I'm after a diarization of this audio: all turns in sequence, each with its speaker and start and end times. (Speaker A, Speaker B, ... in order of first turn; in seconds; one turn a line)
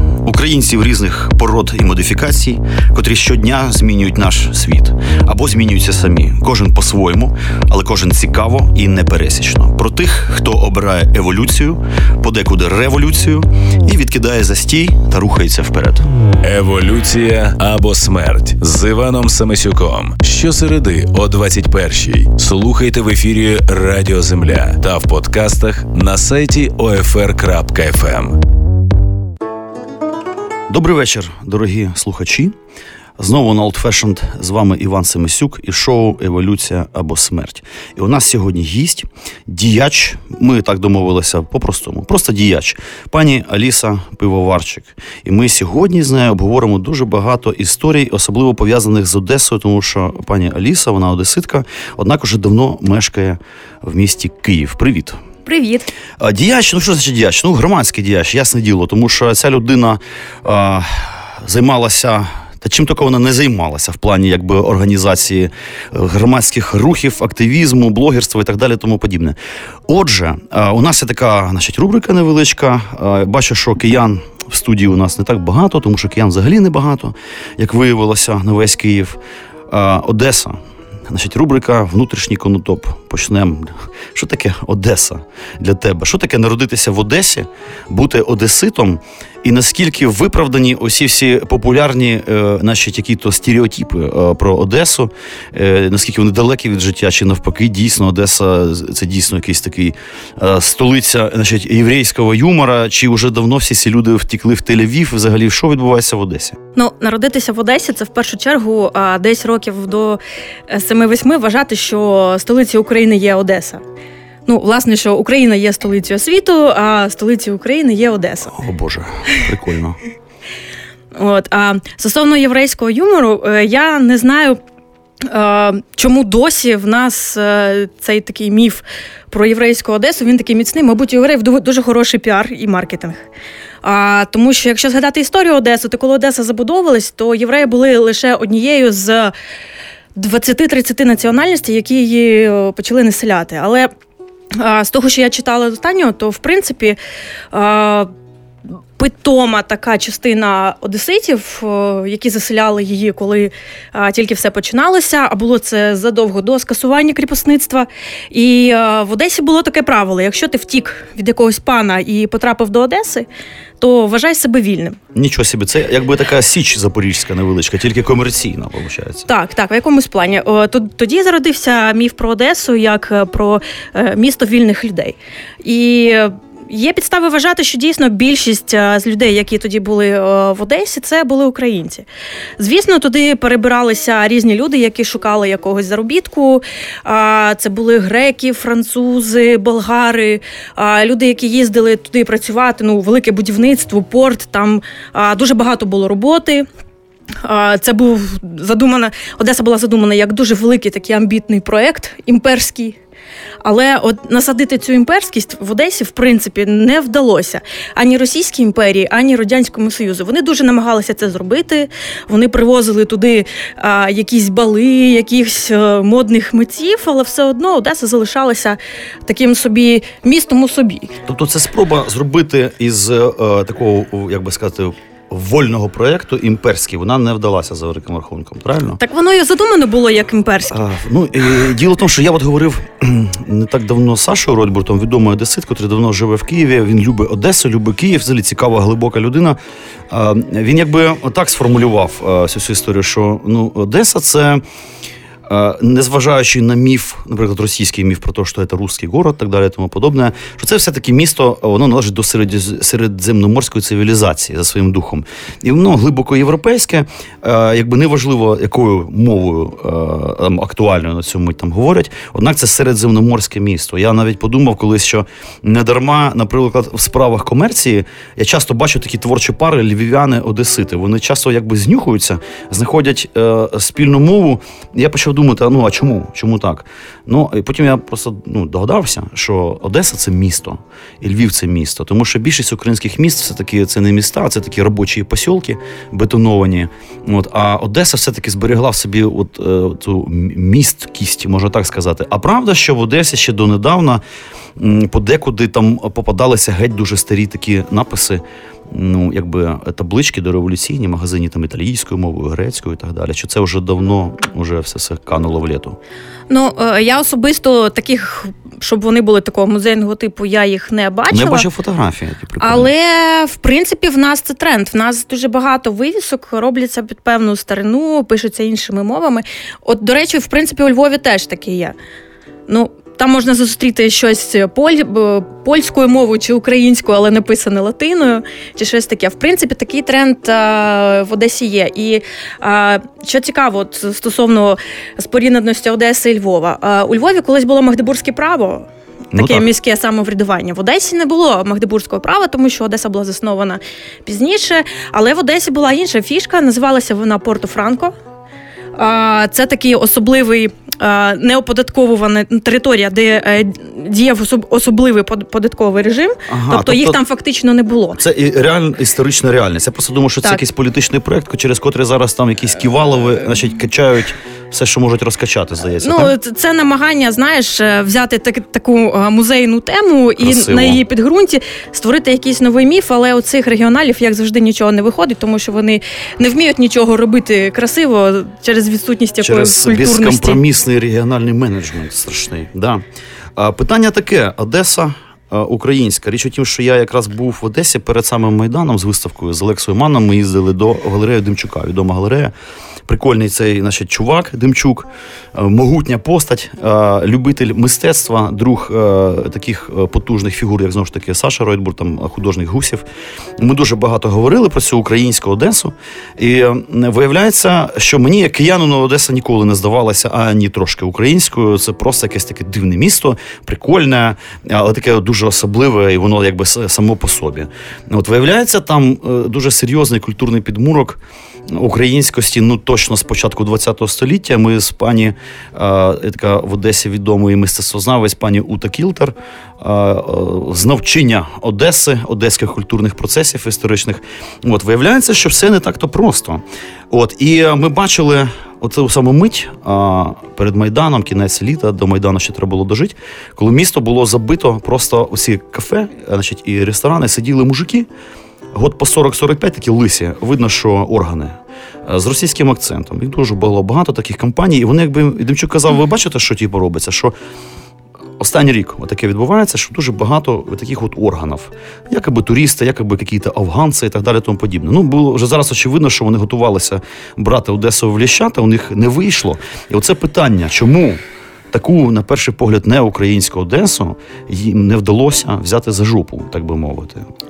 Speaker A: 0.2-16.1
Speaker B: 16.4-28.4
Speaker A: 30.7-32.5
Speaker A: 33.2-55.2
Speaker C: 55.5-55.9
Speaker A: 56.2-69.3
Speaker A: 69.9-79.2
Speaker A: 79.7-80.6
Speaker A: 81.1-106.6
Speaker C: 106.7-113.8
Speaker C: 114.5-118.5
Speaker A: 118.5-120.0
Speaker C: 121.1-124.6
Speaker C: 125.2-133.2
Speaker C: 133.8-139.3
Speaker C: 140.2-143.9
Speaker C: 144.5-147.0
Speaker C: 147.5-148.1
Speaker C: 148.9-163.2
Speaker C: 163.8-165.0
Speaker A: 165.1-169.3
Speaker C: 169.3-182.1
Speaker C: 182.6-196.7
Speaker C: 197.4-202.9
Speaker C: 203.6-221.1
Speaker A: 221.3-229.0
Speaker C: 229.0-230.7
Speaker A: 230.7-239.6
Speaker A: 240.1-244.6
Speaker A: 245.5-294.2
Speaker A: 294.8-306.0
Speaker C: 306.5-311.7
Speaker A: 311.3-312.9
Speaker C: 312.6-321.9
Speaker C: 322.7-338.9
Speaker A: 339.3-339.7
Speaker C: 339.4-348.1
Speaker C: 349.0-358.2
Speaker A: 356.5-357.2
Speaker A: 358.2-366.3
Speaker C: 366.0-380.6
Speaker A: 370.4-371.0
Speaker A: 379.4-383.0
Speaker A: 383.6-392.5
Speaker A: 393.1-403.0
Speaker A: 403.6-448.1
Speaker A: 448.7-457.3
Speaker A: 458.4-471.2
Speaker A: 471.7-477.2